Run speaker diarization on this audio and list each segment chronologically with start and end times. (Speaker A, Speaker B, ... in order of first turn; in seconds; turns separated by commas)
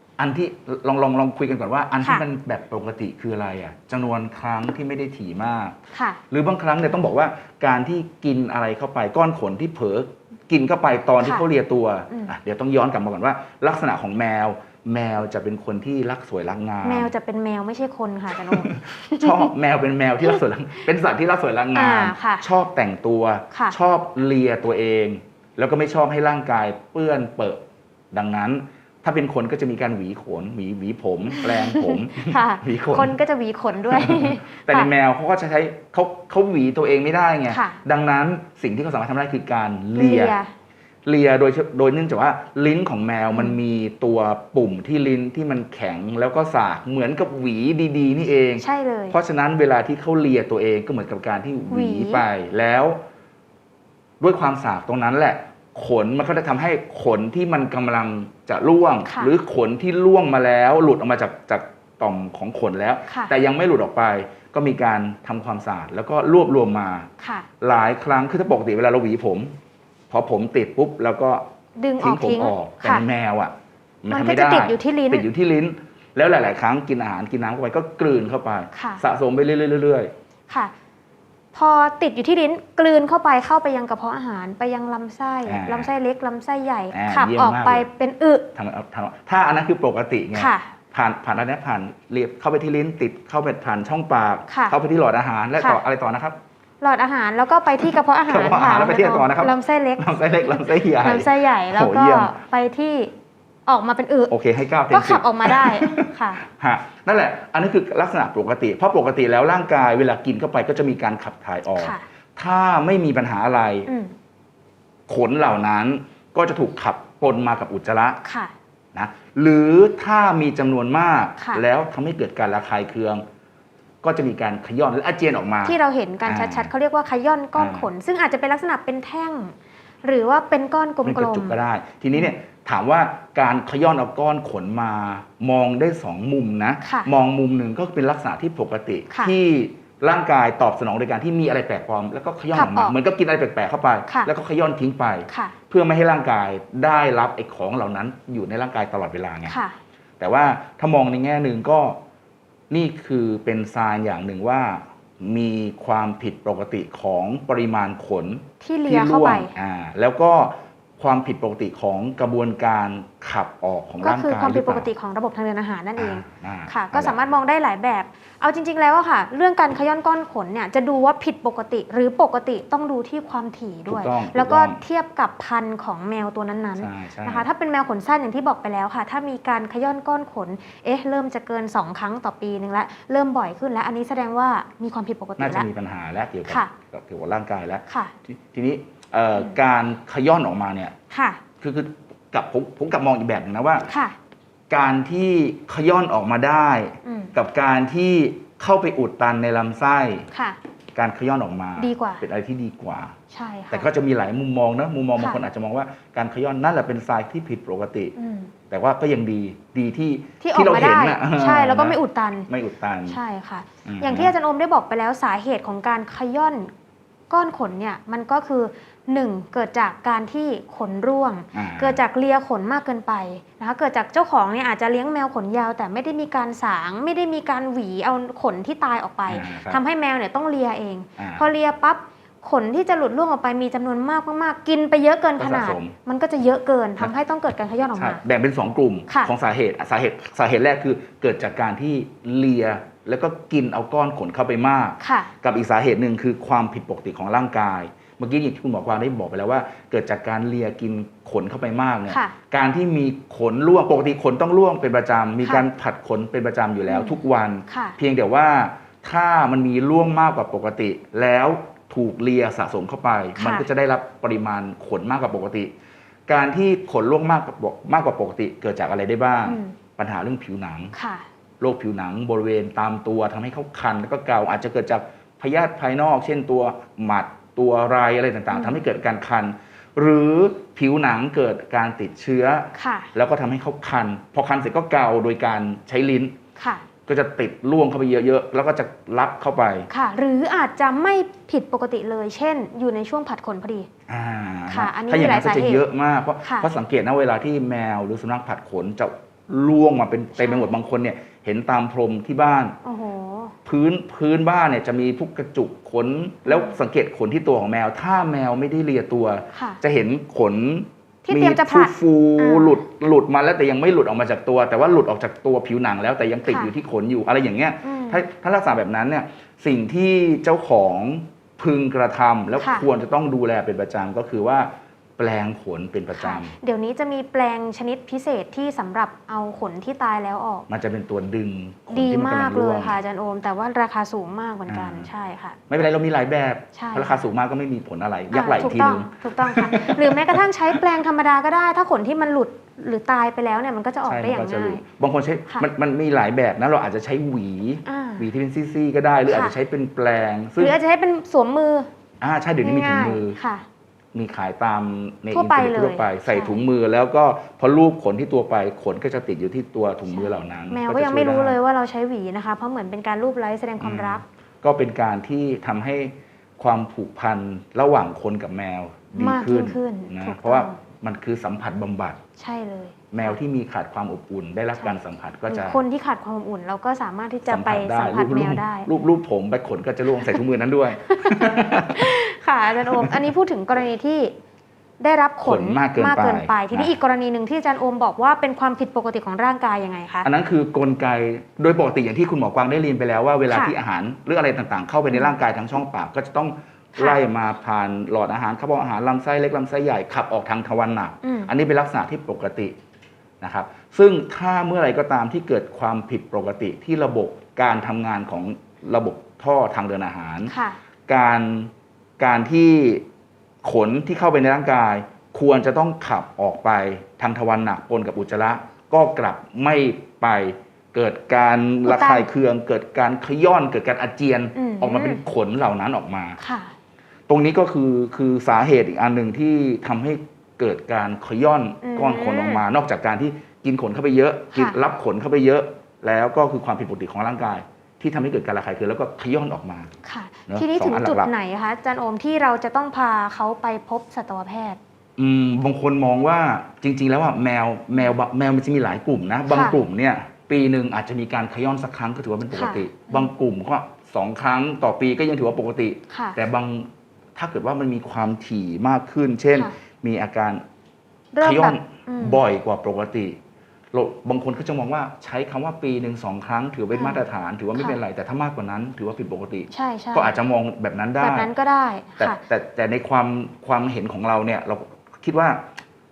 Speaker A: 0.2-5.8, Speaker B: 5.9-6.2, Speaker A: 6.3-17.1, Speaker B: 16.8-19.5, Speaker A: 18.3-33.2, Speaker B: 21.8-22.5, Speaker B: 31.3-34.9, Speaker A: 33.9-40.4, Speaker B: 37.5-37.8, Speaker B: 40.0-40.5, Speaker A: 41.0-53.0, Speaker B: 48.6-49.2, Speaker B: 51.7-52.3, Speaker A: 54.2-67.1, Speaker B: 59.1-59.3, Speaker B: 63.1-63.3, Speaker B: 67.2-67.5, Speaker A: 67.6-69.5, Speaker A: 70.1-71.5, Speaker B: 71.8-73.0, Speaker A: 72.0-80.1, Speaker B: 74.1-75.3, Speaker B: 78.7-79.0, Speaker B: 81.5-88.5, Speaker A: 85.5-85.9, Speaker A: 86.9-87.9, Speaker A: 88.5-96.4, Speaker B: 90.3-90.7, Speaker B: 94.5-94.8, Speaker B: 96.8-103.1, Speaker A: 98.3-102.3, Speaker B: 103.7-104.3, Speaker A: 104.3-113.9, Speaker B: 104.9-106.4, Speaker B: 111.8-112.0, Speaker B: 113.9-114.1, Speaker A: 115.1-118.2, Speaker B: 118.2-118.5, Speaker A: 118.9-123.2, Speaker B: 121.4-121.6, Speaker A: 124.0-126.7, Speaker B: 125.7-131.6, Speaker A: 127.6-127.9, Speaker A: 131.1-149.6, Speaker B: 136.8-137.1, Speaker B: 142.5-143.0, Speaker B: 145.3-145.6, Speaker B: 149.5-149.8, Speaker A: 150.2-152.0, Speaker A: 152.7-164.9, Speaker B: 158.6-159.5, Speaker B: 164.0-185.7, Speaker A: 166.0-167.2, Speaker A: 173.9-174.8, Speaker A: 176.8-177.5, Speaker A: 185.4-190.9, Speaker B: 186.5-186.7, Speaker B: 187.9-188.1, Speaker B: 191.1-191.4, Speaker A: 191.6-193.9, Speaker B: 193.9-194.2, Speaker A: 194.7-200.3, Speaker B: 197.0-197.3, Speaker B: 200.3-200.6, Speaker A: 200.9-203.2, Speaker B: 201.8-202.2, Speaker B: 203.3-203.9, Speaker A: 203.7-208.1, Speaker B: 208.2-208.5, Speaker A: 208.7-213.2, Speaker B: 210.4-212.5, Speaker B: 213.1-216.7, Speaker A: 213.8-214.3, Speaker B: 217.3-238.2, Speaker A: 221.5-222.0, Speaker A: 229.3-229.8, Speaker A: 231.2-231.5, Speaker A: 235.4-235.9, Speaker A: 238.0-265.7, Speaker B: 245.0-245.3, Speaker B: 252.1-252.3, Speaker B: 256.9-258.0, Speaker B: 263.4-263.7, Speaker A: 266.3-270.9, Speaker B: 269.4-269.8, Speaker B: 270.9-271.3, Speaker A: 271.6-286.4, Speaker B: 278.5-278.8, Speaker B: 282.8-283.1, Speaker B: 286.6-286.9, Speaker A: 287.1-289.9, Speaker B: 289.9-293.9, Speaker A: 294.1-302.8, Speaker B: 294.7-295.8, Speaker B: 296.4-296.7, Speaker B: 300.4-300.7, Speaker B: 302.8-303.6, Speaker A: 303.6-326.5, Speaker B: 306.4-306.8, Speaker B: 309.5-309.8, Speaker B: 311.2-312.8, Speaker B: 316.5-316.7, Speaker B: 317.8-318.2, Speaker B: 322.6-322.9, Speaker B: 326.1-330.7, Speaker A: 330.7-333.0, Speaker B: 331.9-335.6, Speaker A: 334.7-335.1, Speaker A: 335.7-340.8, Speaker B: 336.8-337.2, Speaker B: 338.3-344.8, Speaker A: 344.1-350.8, Speaker B: 347.9-348.3, Speaker B: 349.3-349.5, Speaker B: 350.6-351.9, Speaker A: 352.2-353.4, Speaker B: 352.6-353.6, Speaker A: 354.1-361.6, Speaker B: 355.3-356.6, Speaker B: 360.1-364.2, Speaker A: 363.8-372.2, Speaker B: 369.1-370.8, Speaker B: 372.4-373.4, Speaker A: 373.1-375.8, Speaker B: 374.8-378.9, Speaker A: 377.5-382.1, Speaker B: 381.1-384.3, Speaker A: 382.8-383.3, Speaker B: 385.0-390.3, Speaker A: 385.4-386.9, Speaker A: 390.2-402.7, Speaker B: 395.1-395.4, Speaker B: 401.2-401.5, Speaker A: 403.4-410.5, Speaker B: 410.5-410.8, Speaker A: 411.1-413.0, Speaker A: 413.6-426.4, Speaker B: 421.9-422.3, Speaker B: 424.6-425.2, Speaker B: 426.4-426.7, Speaker A: 427.3-439.9, Speaker B: 431.8-432.6, Speaker B: 440.0-444.8, Speaker A: 440.5-441.3, Speaker A: 445.2-460.6, Speaker B: 449.5-449.8, Speaker B: 452.5-453.3, Speaker B: 456.1-456.4, Speaker B: 461.3-462.4, Speaker A: 461.4-463.4, Speaker A: 463.9-471.5, Speaker B: 466.9-467.2, Speaker B: 469.7-470.4, Speaker B: 471.2-472.4, Speaker A: 472.2-475.6